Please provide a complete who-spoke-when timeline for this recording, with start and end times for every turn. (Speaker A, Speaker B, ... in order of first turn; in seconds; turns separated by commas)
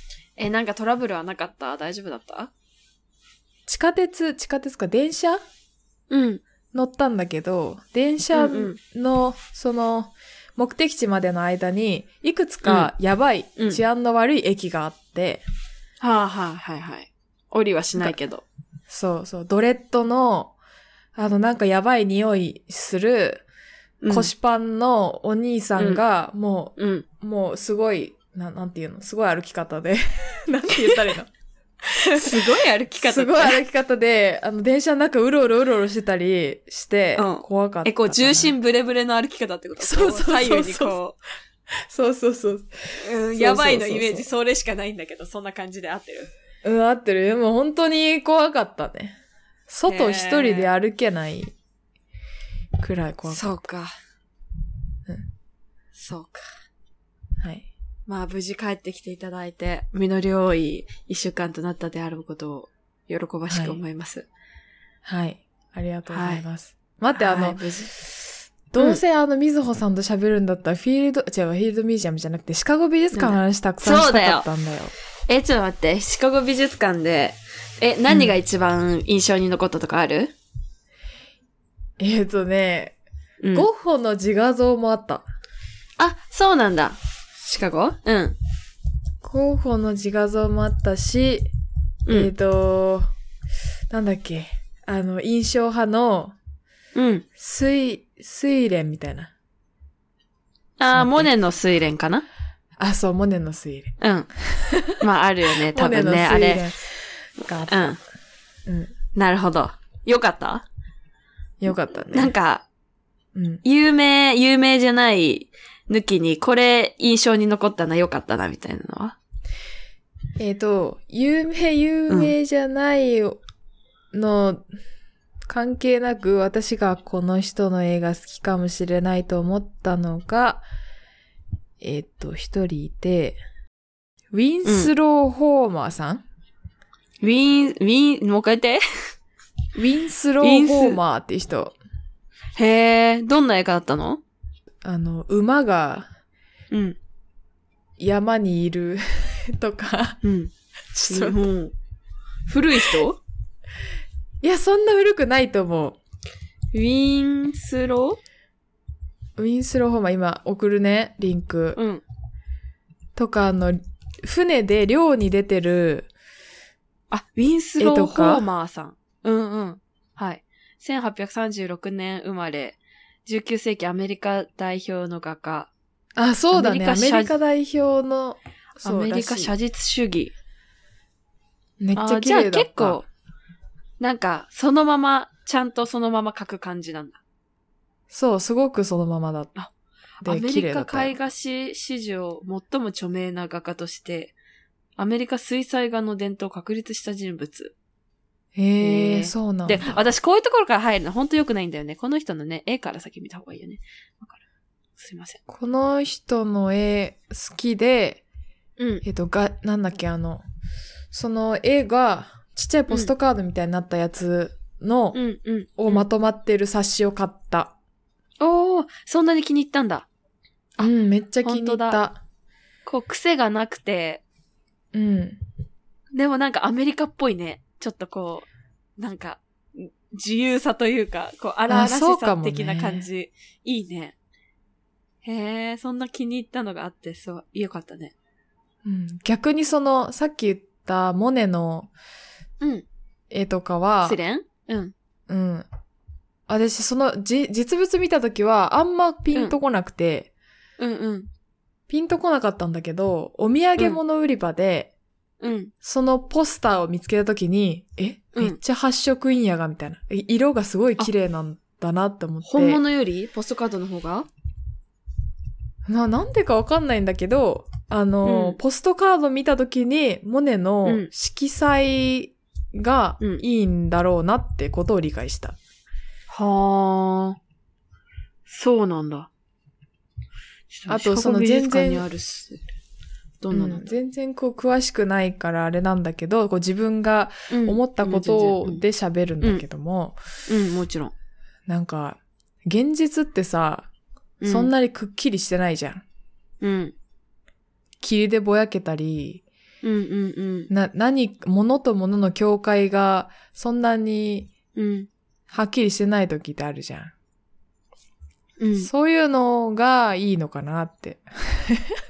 Speaker A: 0.4-2.5, Speaker B: 3.7-5.4, Speaker A: 6.1-6.4, Speaker B: 6.7-15.4, Speaker A: 8.3-8.8, Speaker A: 12.6-12.9, Speaker A: 16.0-18.4, Speaker B: 18.9-20.5, Speaker B: 21.1-23.4, Speaker A: 24.0-24.3, Speaker B: 24.1-31.3, Speaker A: 26.8-27.1, Speaker A: 30.7-31.0, Speaker A: 31.9-33.6, Speaker B: 32.0-38.5, Speaker A: 37.1-41.2, Speaker B: 39.8-41.0, Speaker B: 41.7-44.3, Speaker A: 43.0-46.3, Speaker B: 46.6-51.5, Speaker A: 49.9-50.7, Speaker B: 52.8-53.5, Speaker A: 53.2-53.9, Speaker A: 55.9-56.4, Speaker B: 57.4-57.7, Speaker A: 58.1-64.2, Speaker B: 63.5-63.8, Speaker B: 65.0-68.1, Speaker A: 66.1-66.4, Speaker A: 67.1-67.9, Speaker B: 68.7-74.9, Speaker A: 73.1-74.5, Speaker A: 75.3-80.3, Speaker B: 82.0-83.0, Speaker A: 83.4-83.7, Speaker B: 83.5-85.2, Speaker A: 86.0-88.4, Speaker B: 89.2-91.5, Speaker A: 92.1-92.3, Speaker B: 92.1-93.1, Speaker B: 93.9-96.3, Speaker A: 96.9-97.2, Speaker B: 97.4-99.3, Speaker A: 100.8-102.2, Speaker B: 100.9-101.3, Speaker B: 102.8-105.0, Speaker A: 104.0-104.3, Speaker A: 105.0-106.6, Speaker B: 105.7-108.0, Speaker A: 107.7-108.0, Speaker B: 108.7-108.9, Speaker A: 109.1-110.6, Speaker B: 111.6-112.3, Speaker A: 112.1-112.6, Speaker B: 113.3-113.6, Speaker A: 113.6-119.2, Speaker B: 120.4-123.4, Speaker A: 122.1-122.3, Speaker B: 124.1-124.7, Speaker B: 125.5-130.6, Speaker B: 131.8-133.4, Speaker B: 134.3-136.2, Speaker A: 134.6-134.9, Speaker A: 137.2-138.8, Speaker B: 139.7-141.8, Speaker A: 140.4-141.0, Speaker A: 142.6-144.2, Speaker B: 144.8-146.1, Speaker A: 146.7-147.0, Speaker B: 148.0-150.2, Speaker A: 150.2-150.5, Speaker B: 150.9-151.4, Speaker A: 151.1-151.7, Speaker A: 152.5-153.2, Speaker B: 154.4-156.0, Speaker A: 156.7-158.2, Speaker B: 159.4-161.8, Speaker A: 161.8-162.0, Speaker B: 163.2-166.1, Speaker A: 167.1-175.7, Speaker B: 167.8-168.4, Speaker B: 176.2-179.5, Speaker A: 176.5-177.3, Speaker A: 178.8-180.3, Speaker B: 181.8-183.0, Speaker A: 181.9-183.1, Speaker A: 184.0-187.2, Speaker B: 188.1-189.5, Speaker A: 190.2-194.3, Speaker B: 190.2-191.1, Speaker A: 195.0-197.7, Speaker B: 198.5-200.0, Speaker A: 198.8-204.4, Speaker A: 205.0-205.4, Speaker B: 205.5-208.2, Speaker A: 208.8-209.0, Speaker B: 209.0-210.4, Speaker B: 211.1-215.2, Speaker A: 215.1-216.0, Speaker B: 215.8-217.7, Speaker A: 218.4-220.1, Speaker B: 220.8-222.2, Speaker A: 221.4-222.0, Speaker A: 222.8-224.2, Speaker B: 224.9-225.4, Speaker A: 226.1-228.5, Speaker A: 229.0-234.1, Speaker B: 231.7-233.1, Speaker A: 235.2-238.1, Speaker B: 238.8-241.9, Speaker A: 242.6-242.8, Speaker B: 243.3-244.2, Speaker A: 244.0-244.9, Speaker B: 245.3-245.7, Speaker B: 246.5-250.3, Speaker A: 250.8-251.3, Speaker B: 251.9-254.9, Speaker A: 255.4-255.7, Speaker B: 255.8-262.8, Speaker A: 262.4-264.3, Speaker B: 265.9-275.6, Speaker A: 268.2-268.6, Speaker A: 270.8-271.1, Speaker A: 276.3-277.4, Speaker A: 278.5-279.3, Speaker A: 280.7-282.6, Speaker B: 280.9-282.1, Speaker A: 283.4-283.8, Speaker B: 283.5-290.2, Speaker A: 287.5-288.8, Speaker A: 290.5-291.1, Speaker B: 291.7-293.9, Speaker A: 294.4-294.7, Speaker B: 294.4-296.0, Speaker A: 296.6-296.9, Speaker B: 298.0-299.4, Speaker A: 299.8-300.7, Speaker B: 300.7-304.5, Speaker A: 304.8-305.1, Speaker B: 305.5-307.1, Speaker A: 308.6-308.9, Speaker B: 308.8-312.0